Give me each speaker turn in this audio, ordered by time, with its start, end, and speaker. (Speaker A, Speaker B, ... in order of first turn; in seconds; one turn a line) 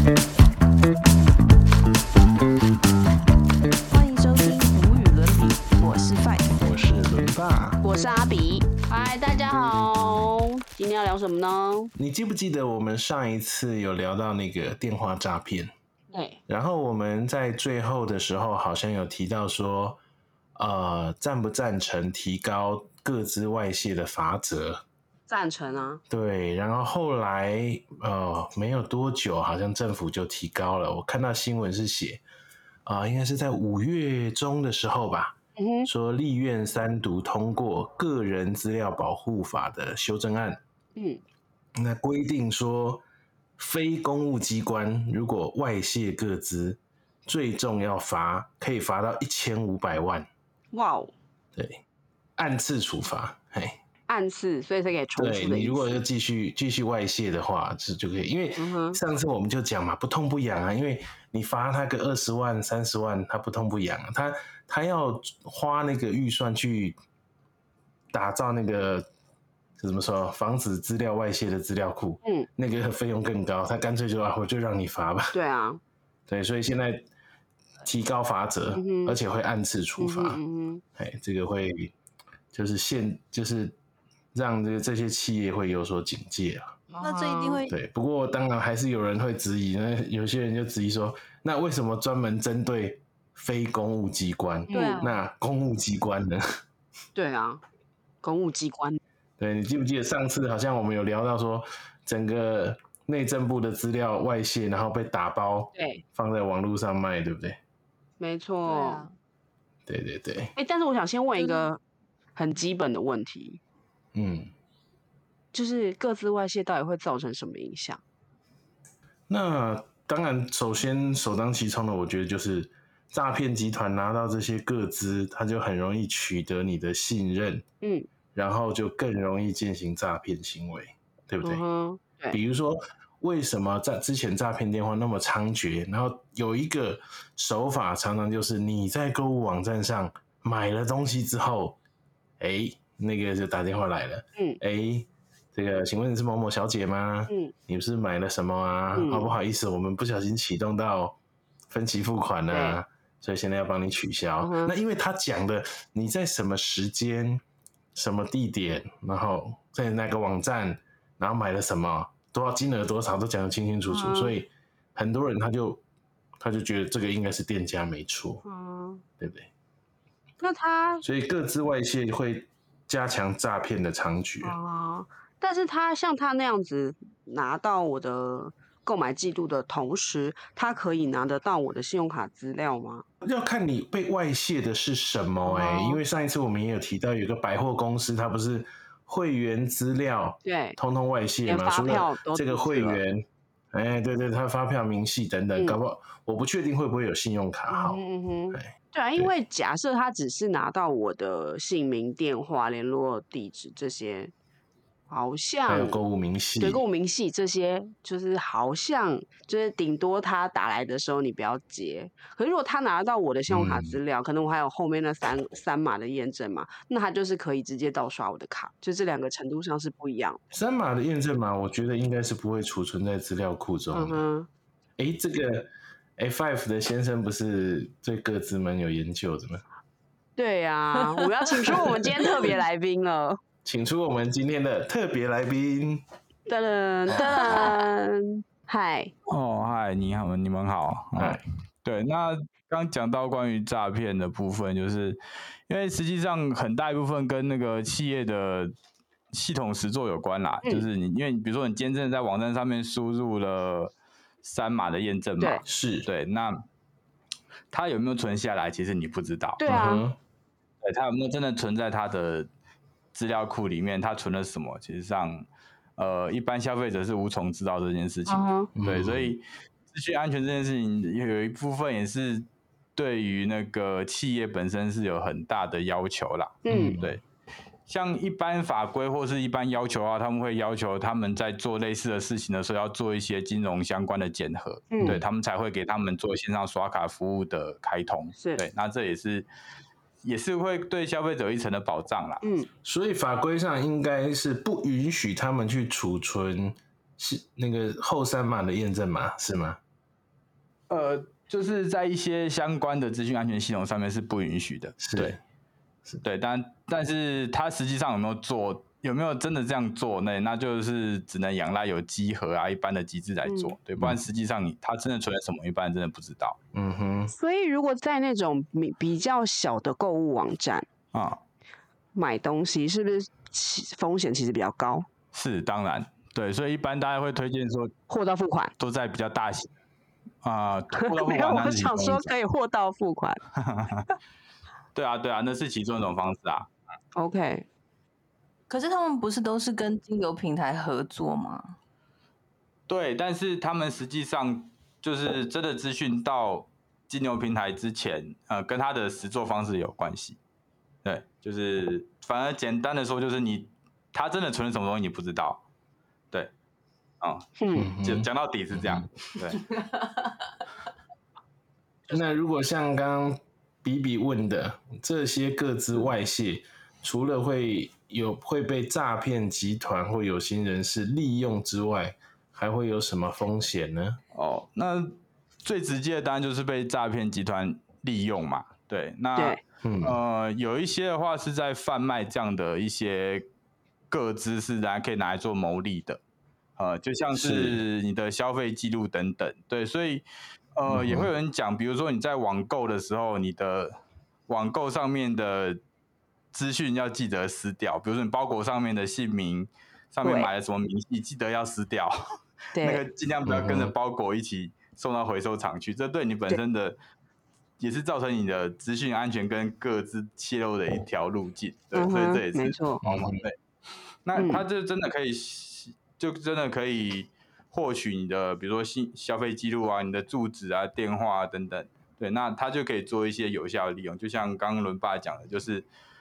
Speaker A: 3.9-6.6
Speaker B: 6.6-7.8
Speaker C: 7.8-11.9
Speaker B: 12.0-15.7
Speaker C: 16.1-16.4
Speaker B: 16.5-20.0
Speaker B: 20.6-24.8
Speaker C: 25.3-26.0
Speaker B: 26.1-32.2
Speaker B: 32.9-40.6
Speaker C: 35.6-35.9
Speaker C: 41.0-41.2
Speaker B: 41.8-43.0
Speaker B: 43.6-50.3
Speaker C: 50.7-51.1
Speaker B: 51.6-51.8
Speaker B: 52.4-53.8
Speaker C: 54.1-56.0
Speaker B: 55.2-67.0
Speaker C: 58.6-59.0
Speaker B: 68.1-69.1
Speaker B: 69.8-75.3
Speaker C: 75.3-75.8
Speaker B: 76.3-77.0
Speaker B: 77.8-80.4
Speaker C: 78.8-79.2
Speaker C: 80.0-80.8
Speaker B: 81.0-81.9
Speaker B: 82.5-83.8
Speaker B: 84.3-86.8
Speaker C: 86.9-87.6
Speaker A: 87.0-87.8
Speaker B: 87.7-96.4
Speaker C: 94.7-95.1
Speaker A: 94.7-95.2
Speaker C: 97.2-97.6
Speaker C: 98.2-99.0
Speaker B: 99.4-107.6
Speaker C: 105.7-106.0
Speaker C: 108.2-109.0
Speaker A: 108.7-109.1
Speaker B: 109.9-110.5
Speaker C: 110.6-111.8
Speaker A: 111.4-111.7
Speaker C: 112.4-113.6
Speaker B: 114.1-114.5
Speaker C: 115.5-118.0
Speaker B: 119.3-127.6
Speaker C: 127.8-128.1
Speaker B: 128.3-131.6
Speaker C: 131.4-132.4
Speaker B: 132.3-141.8
Speaker B: 142.4-151.2
Speaker C: 148.9-149.3
Speaker B: 151.7-157.4
Speaker C: 152.5-152.8
Speaker C: 154.4-154.7
Speaker B: 157.9-165.8
Speaker C: 163.9-164.3
Speaker B: 166.4-168.4
Speaker C: 168.4-169.0
Speaker B: 169.2-169.5
Speaker C: 170.4-171.0
Speaker B: 171.0-174.6
Speaker C: 174.4-183.1
Speaker B: 183.2-198.0
Speaker C: 185.4-186.0
Speaker C: 190.4-190.8
Speaker C: 191.5-193.0
Speaker C: 197.7-204.3
Speaker B: 198.5-199.3
Speaker C: 205.1-206.0
Speaker B: 205.7-206.8
Speaker C: 206.6-220.4
Speaker B: 213.5-214.0
Speaker B: 220.5-224.2
Speaker C: 223.9-224.5
Speaker B: 225.0-229.6
Speaker C: 230.4-233.4
Speaker B: 231.7-232.2
Speaker B: 233.7-236.0
Speaker C: 236.5-239.1
Speaker D: 239.3-248.8
Speaker B: 241.2-241.4
Speaker D: 249.3-256.6
Speaker B: 255.7-256.1
Speaker D: 257.7-259.6
Speaker C: 259.6-260.0
Speaker B: 259.6-260.2
Speaker D: 260.8-262.5
Speaker D: 263.1-277.2
Speaker C: 268.3-268.7
Speaker B: 268.8-269.4
Speaker C: 276.6-277.0
Speaker B: 276.7-277.2
Speaker D: 277.9-289.5
Speaker C: 284.9-285.2
Speaker C: 288.4-288.6
Speaker D: 290.2-292.4
Speaker C: 292.4-292.7
Speaker B: 292.8-299.8
Speaker D: 300.9-305.4
Speaker B: 305.0-305.4
Speaker D: 306.2-316.6
Speaker C: 313.5-313.8
Speaker B: 316.7-317.3
Speaker C: 317.3-320.9
Speaker D: 321.1-321.4
Speaker C: 322.1-325.1
Speaker D: 325.3-327.9
Speaker C: 328.1-328.7
Speaker D: 328.8-329.7
Speaker D: 330.4-332.3
Speaker C: 331.0-333.4
Speaker D: 333.6-334.1
Speaker D: 334.9-336.7
Speaker C: 337.2-337.7
Speaker A: 338.7-341.8
Speaker D: 342.9-350.4
Speaker D: 351.0-355.6
Speaker D: 357.2-359.6
Speaker C: 357.6-357.9
Speaker B: 357.8-359.1
Speaker B: 362.1-374.2
Speaker D: 374.3-383.5
Speaker B: 379.8-380.2
Speaker D: 384.1-386.2
Speaker D: 386.8-390.2
Speaker B: 387.3-387.8
Speaker D: 390.8-394.0
Speaker B: 390.9-391.3
Speaker D: 394.5-395.8
Speaker D: 396.5-402.2
Speaker C: 400.2-400.5
Speaker C: 402.7-403.0
Speaker D: 402.8-407.0
Speaker B: 403.5-403.9
Speaker D: 407.8-413.6
Speaker C: 411.9-413.0
Speaker B: 413.0-413.4
Speaker D: 414.2-425.9
Speaker C: 414.4-414.6